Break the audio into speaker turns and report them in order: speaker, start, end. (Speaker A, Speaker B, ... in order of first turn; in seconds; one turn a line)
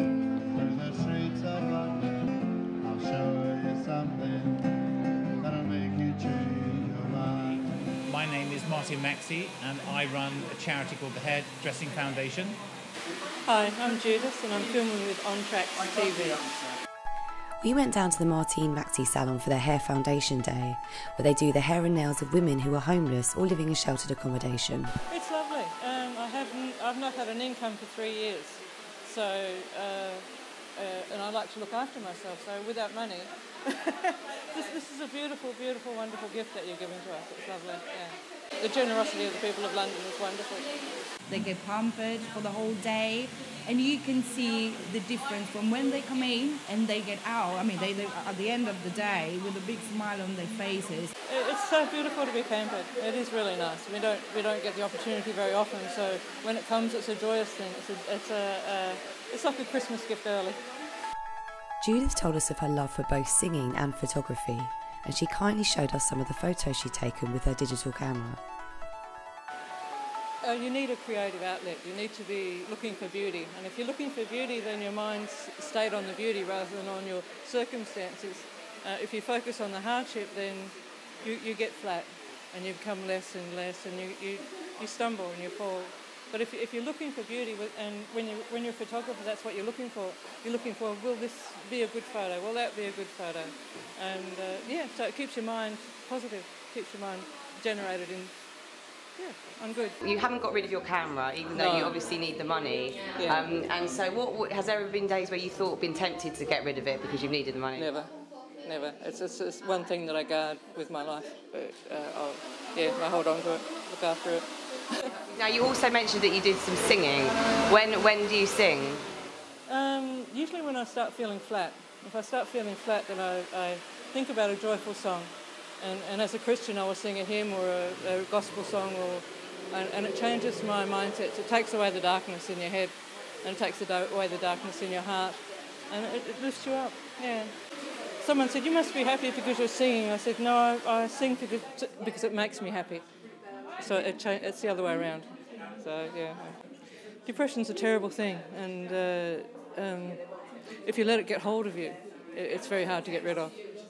Speaker A: 0.5-7.9
Speaker B: 7.4-12.6
Speaker C: 13.4-16.5
Speaker D: 17.6-24.9
Speaker C: 25.1-40.7
Speaker E: 41.3-51.1
Speaker C: 51.3-60.6
Speaker D: 61.8-68.4
Speaker C: 70.4-98.3
Speaker C: 99.2-100.0
Speaker F: 100.0-107.9
Speaker C: 101.5-102.0
Speaker C: 103.2-103.4
Speaker C: 107.8-108.1
Speaker C: 108.6-115.1
Speaker F: 115.3-119.0
Speaker C: 119.7-137.5
Speaker C: 138.2-143.0
Speaker C: 143.8-146.6
Speaker C: 147.2-150.2
Speaker C: 150.8-153.6